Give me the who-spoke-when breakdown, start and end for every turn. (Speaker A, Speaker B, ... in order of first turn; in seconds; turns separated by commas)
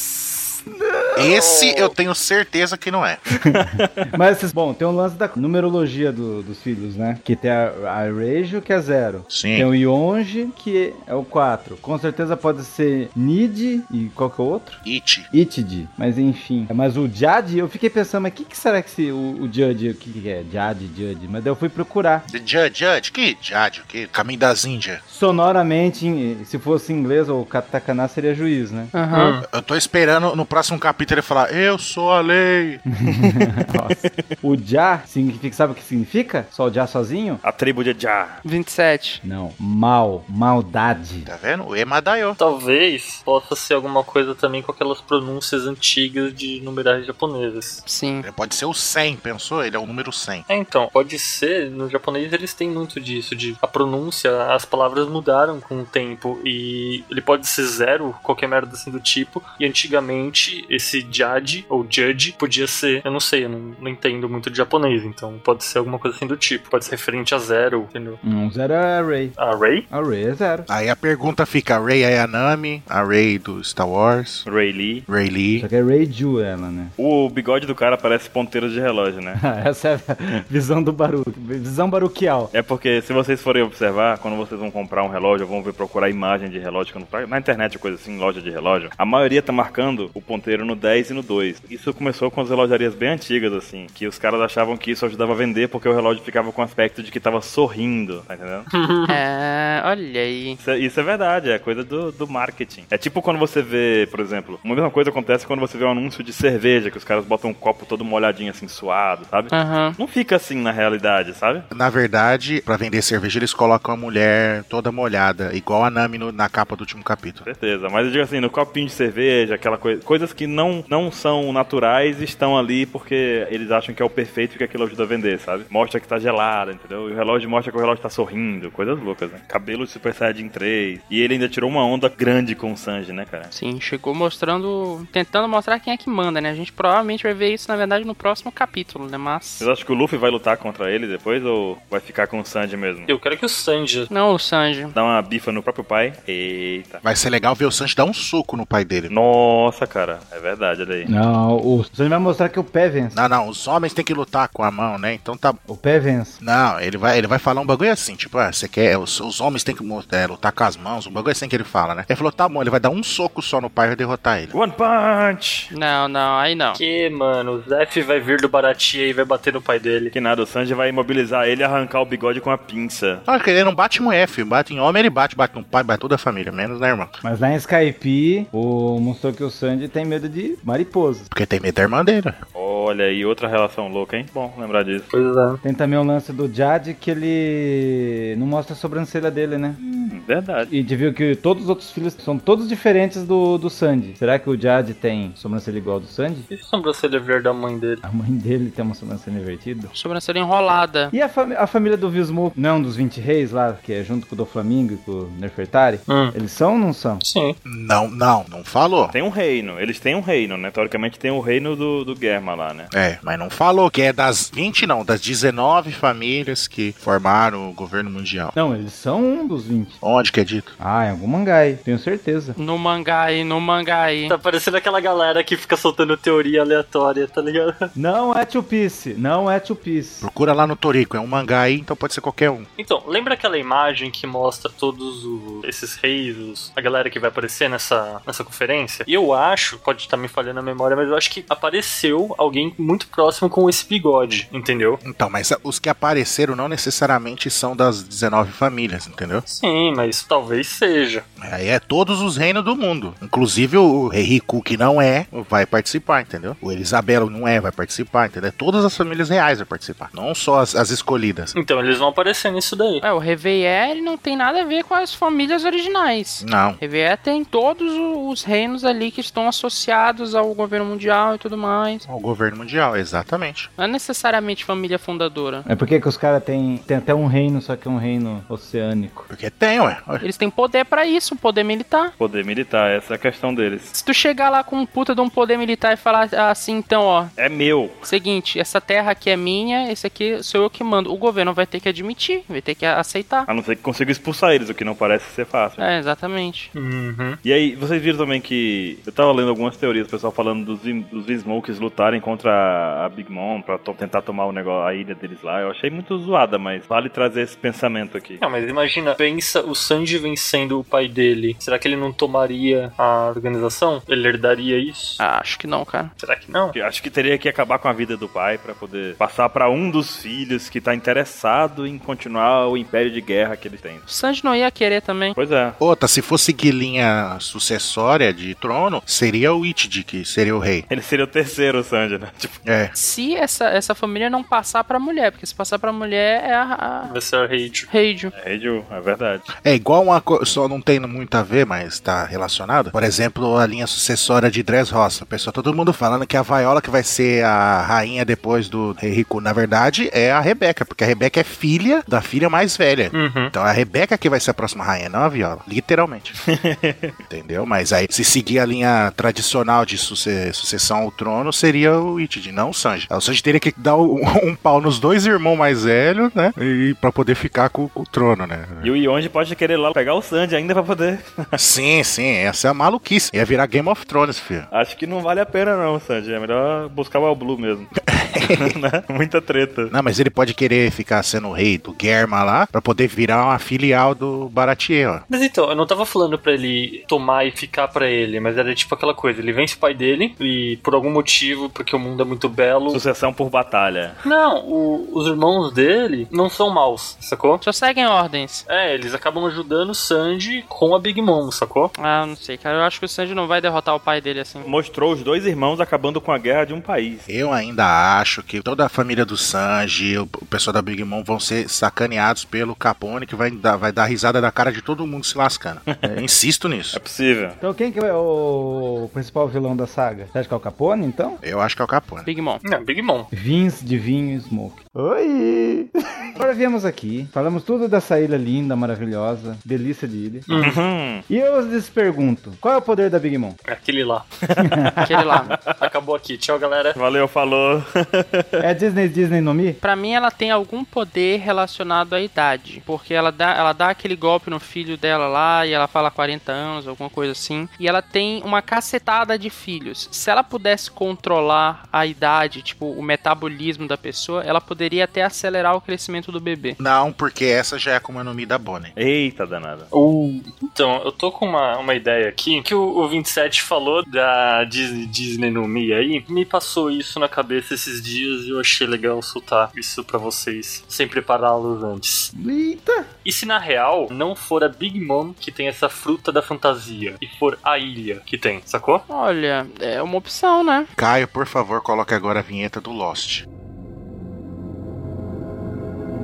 Speaker A: 0.7-1.3, Speaker B: 1.2-3.2, Speaker C: 1.4-1.9, Speaker A: 3.3-14.8, Speaker D: 3.5-3.9, Speaker B: 9.3-9.7, Speaker B: 14.8-15.3, Speaker A: 15.3-22.2, Speaker B: 22.3-25.0, Speaker A: 25.1-28.9, Speaker E: 28.9-29.4, Speaker C: 29.1-29.4, Speaker B: 29.5-32.8, Speaker A: 32.9-37.4, Speaker D: 34.0-34.3, Speaker D: 37.4-38.4, Speaker E: 38.4-39.2, Speaker A: 39.2-41.3, Speaker B: 41.2-42.4, Speaker C: 42.4-47.8, Speaker E: 47.9-48.2, Speaker B: 48.2-50.5, Speaker C: 50.5-68.2, Speaker A: 68.2-69.3, Speaker C: 69.4-69.9, Speaker A: 69.9-70.7, Speaker B: 70.7-74.5, Speaker D: 74.5-75.1, Speaker B: 75.1-75.7, Speaker A: 75.6-76.9, Speaker D: 77.0-79.4, Speaker A: 79.3-82.5, Speaker D: 82.5-98.7, Speaker C: 98.7-99.2, Speaker E: 99.1-100.6, Speaker D: 100.6-111.7, Speaker E: 109.5-110.0, Speaker B: 111.7-117.5, Speaker D: 117.4-133.5, Speaker E: 133.5-139.7, Speaker D: 139.6-143.1, Speaker C: 143.1-144.1, Speaker E: 144.1-144.9, Speaker D: 144.9-147.0, Speaker B: 147.0-149.1, Speaker D: 149.1-151.1, Speaker A: 151.1-153.2, Speaker B: 153.1-155.6, Speaker A: 155.7-156.4, Speaker B: 156.4-164.5, Speaker D: 164.5-165.7, Speaker E: 165.7-166.8, Speaker C: 166.7-170.1, Speaker D: 170.1-173.2, Speaker B: 173.3-177.2, Speaker A: 177.2-181.3, Speaker B: 181.3-182.4, Speaker D: 182.5-185.1, Speaker C: 185.1-185.6, Speaker A: 185.6-189.8, Speaker D: 189.8-190.7, Speaker A: 190.6-196.5, Speaker C: 196.5-198.0, Speaker A: 198.0-199.9, Speaker E: 199.9-201.1, Speaker A: 201.1-207.2, Speaker C: 206.1-206.3, Speaker C: 207.2-207.6, Speaker B: 207.6-209.1, Speaker D: 209.1-212.9, Speaker B: 212.9-218.6, Speaker A: 218.6-220.0, Speaker B: 220.0-220.7, Speaker A: 220.8-222.6, Speaker E: 222.6-224.4, Speaker C: 224.3-227.9, Speaker A: 227.9-230.3, Speaker B: 230.2-232.7, Speaker C: 232.8-245.0, Speaker B: 245.0-249.4, Speaker C: 249.4-251.2, Speaker B: 251.4-261.5, Speaker C: 261.5-263.0, Speaker E: 263.0-272.0, Speaker B: 266.4-266.8, Speaker B: 272.0-273.7, Speaker E: 273.8-275.6, Speaker A: 275.7-279.3, Speaker B: 279.3-280.2, Speaker E: 280.2-282.1, Speaker D: 282.2-283.9, Speaker E: 283.9-287.3, Speaker D: 287.4-288.0, Speaker E: 288.0-293.5, Speaker D: 293.5-295.9, Speaker E: 295.8-296.7, Speaker C: 296.7-297.4, Speaker D: 297.4-308.4, Speaker C: 308.4-315.2, Speaker E: 315.2-316.1, Speaker C: 316.2-316.8, Speaker D: 316.7-324.0, Speaker E: 324.1-325.4, Speaker D: 325.4-325.8, Speaker B: 325.8-330.9, Speaker D: 330.9-332.6, Speaker B: 332.6-332.9, Speaker E: 332.9-337.1, Speaker C: 337.0-337.9, Speaker E: 337.9-338.3, Speaker D: 338.3-339.5, Speaker B: 339.6-356.4, Speaker C: 353.1-353.5, Speaker D: 356.5-357.1, Speaker B: 357.3-368.9, Speaker D: 368.8-371.6, Speaker B: 371.5-374.7, Speaker D: 374.7-377.9, Speaker B: 378.1-378.8, Speaker D: 378.4-379.9, Speaker B: 379.9-385.2, Speaker C: 385.3-393.0, Speaker D: 392.9-394.2, Speaker C: 394.2-397.6, Speaker E: 397.6-398.6, Speaker C: 398.7-401.9, Speaker E: 401.9-404.6, Speaker D: 404.6-407.3, Speaker B: 407.3-417.0, Speaker D: 415.9-416.2, Speaker D: 416.9-417.6, Speaker A: 417.6-421.4, Speaker B: 421.4-422.3, Speaker E: 422.2-422.6, Speaker C: 422.6-423.3, Speaker A: 423.3-430.5, Speaker C: 430.5-430.8, Speaker D: 430.5-431.2, Speaker A: 431.3-433.6, Speaker C: 433.6-434.3, Speaker D: 434.4-435.8, Speaker A: 434.6-435.1, Speaker E: 435.0-435.6, Speaker C: 435.7-437.0, Speaker D: 436.9-438.6, Speaker A: 438.6-439.8, Speaker E: 439.8-456.8, Speaker B: 456.8-458.9, Speaker D: 458.9-459.9, Speaker C: 459.9-472.3, Speaker A: 472.3-473.1, Speaker C: 473.2-479.0, Speaker E: 479.1-480.9, Speaker B: 480.9-483.4